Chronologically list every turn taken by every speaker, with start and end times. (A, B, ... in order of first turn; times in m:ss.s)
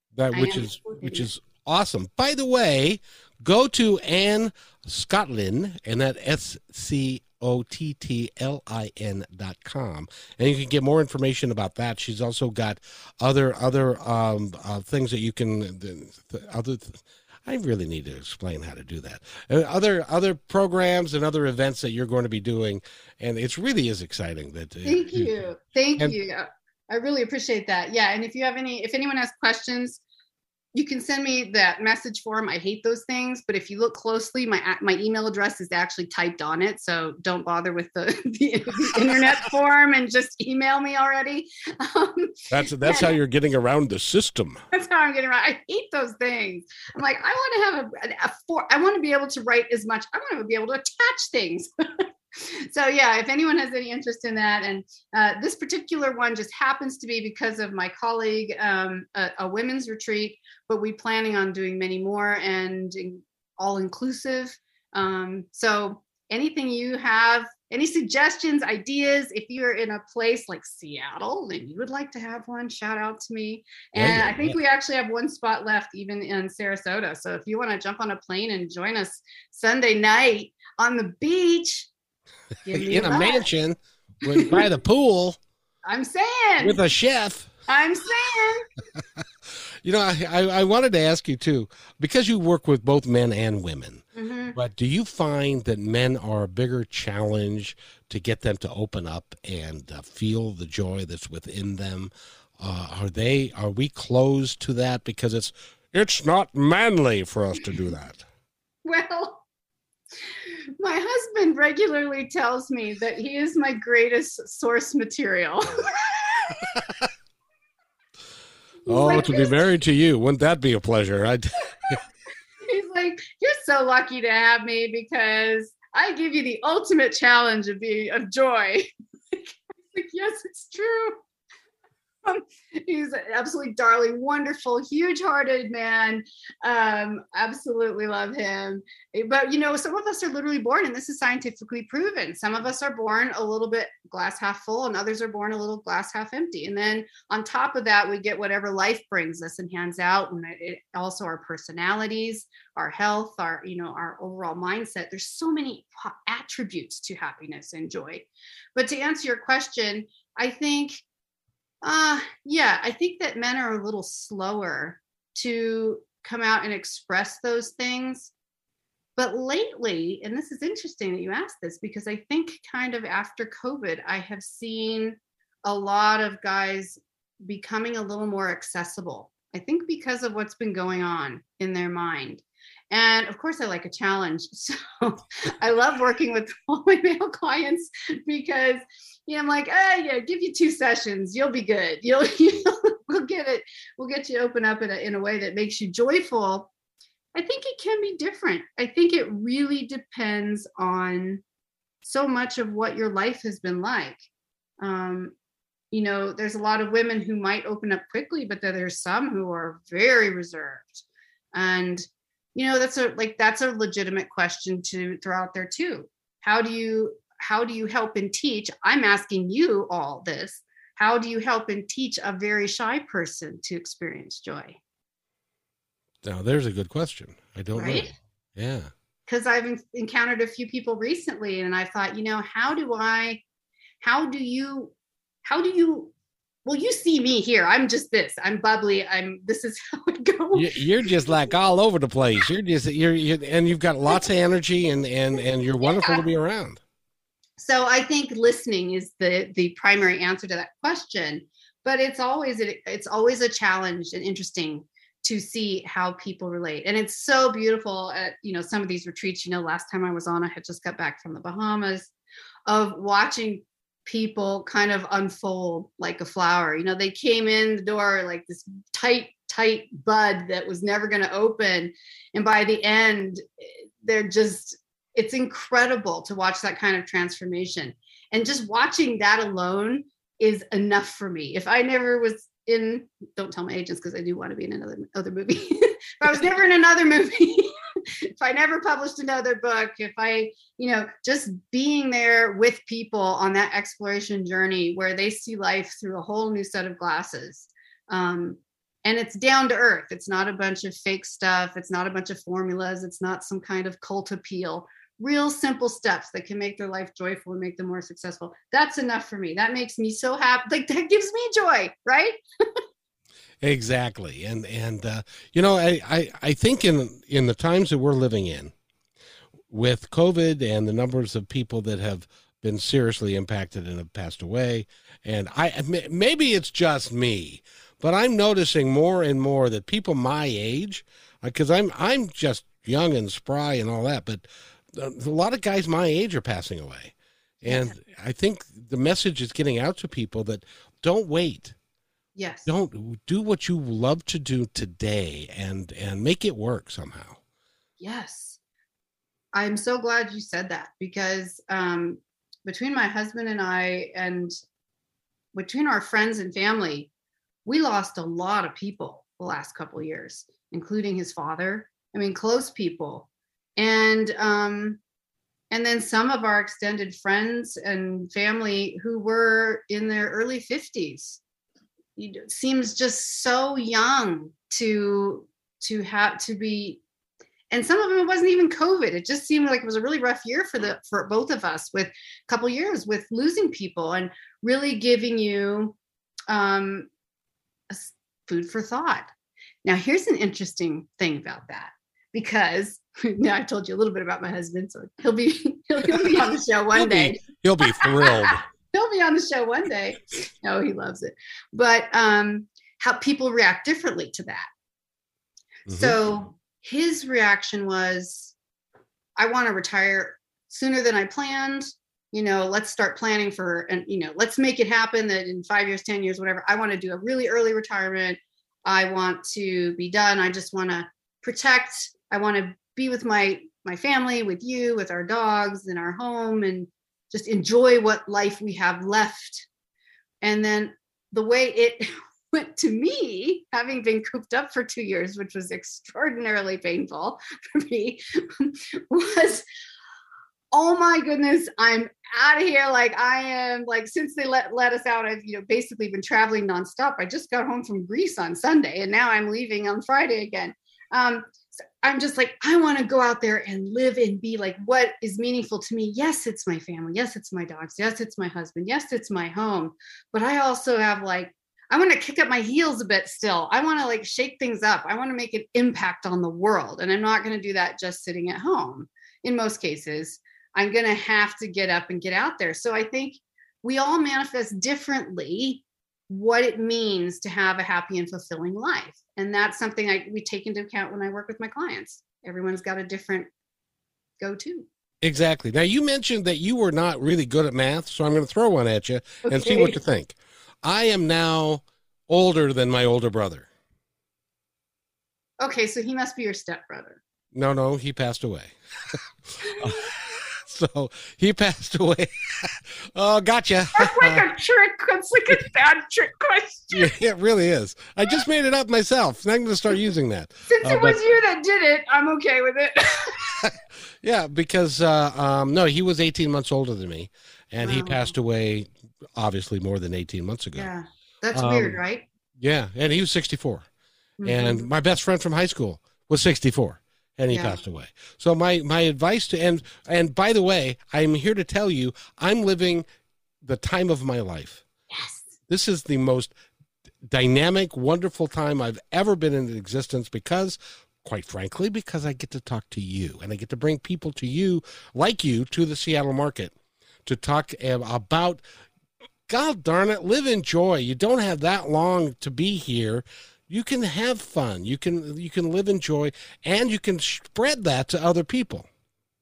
0:00.2-0:25.3 A
0:00.3-0:01.3 B
0:24.8-0:30.0 B
0:30.7-0:43.1 B
0:42.5-0:44.6 A
0:44.7-1:21.9 B
1:14.0-1:14.6 A
1:22.6-1:23.5 B
1:22.7-1:25.4 A
1:24.2-1:24.6 B
1:25.8-1:26.8 B
1:26.6-1:27.5 A
1:27.7-1:28.7 B
1:29.8-1:48.2 A
1:34.1-1:34.6 B
1:48.8-1:49.4 B
1:50.8-1:56.6 B
1:58.8-1:59.5 B
1:58.9-2:02.0 A
2:02.6-2:11.2 B
2:12.2-2:41.0 B
2:41.8-2:48.3 B
2:49.2-3:16.7 B
3:17.3-3:21.4 B
3:22.0-3:24.2 B
3:24.8-3:25.3 B
3:25.9-3:44.8 B
3:46.2-3:48.9 A
3:47.7-3:48.1 B
3:49.3-3:53.4 B
3:54.0-3:54.9 B
3:55.4-3:56.1 B
3:56.6-4:00.7 B
4:00.5-4:06.8 A
4:05.8-4:06.2 B
4:07.6-4:22.1 B
4:22.7-4:47.7 B
4:48.4-5:12.4 B
5:13.6-5:18.7 A
5:19.7-5:41.7 A
5:37.7-5:38.0 B
5:42.3-5:42.7 B
5:42.7-5:47.4 A
5:48.0-5:48.6 B
5:49.5-5:54.5 B
5:55.5-5:57.1 B
5:57.6-6:05.0 B
6:05.7-6:11.4 B
6:12.2-6:17.0 B
6:17.7-6:26.0 B
6:26.5-6:27.1 B
6:27.9-6:29.3 B
6:29.8-6:44.7 B
6:36.9-6:38.6 A
6:45.9-6:46.2 A
6:45.9-6:48.5 B
6:49.4-7:09.7 B
7:10.4-7:19.6 B
7:20.7-8:03.5 B
8:04.4-8:04.9 B
8:05.2-8:13.7 A
8:09.4-8:10.0 B
8:15.6-8:17.2 B
8:17.5-8:18.7 A
8:19.6-8:20.0 B
8:19.6-8:24.4 A
8:23.9-8:27.1 B
8:26.9-8:31.2 A
8:30.7-8:33.5 B
8:33.6-8:40.9 A
8:37.8-8:38.3 B
8:40.8-8:42.2 B
8:41.5-8:42.0 A
8:42.6-8:43.8 A
8:44.4-8:44.8 B
8:44.4-8:53.0 A
8:47.5-8:47.8 B
8:53.6-8:54.8 A
8:55.1-8:55.5 B
8:55.7-8:56.5 A
8:57.3-9:06.7 A
9:07.2-9:08.6 A
9:09.5-9:18.9 A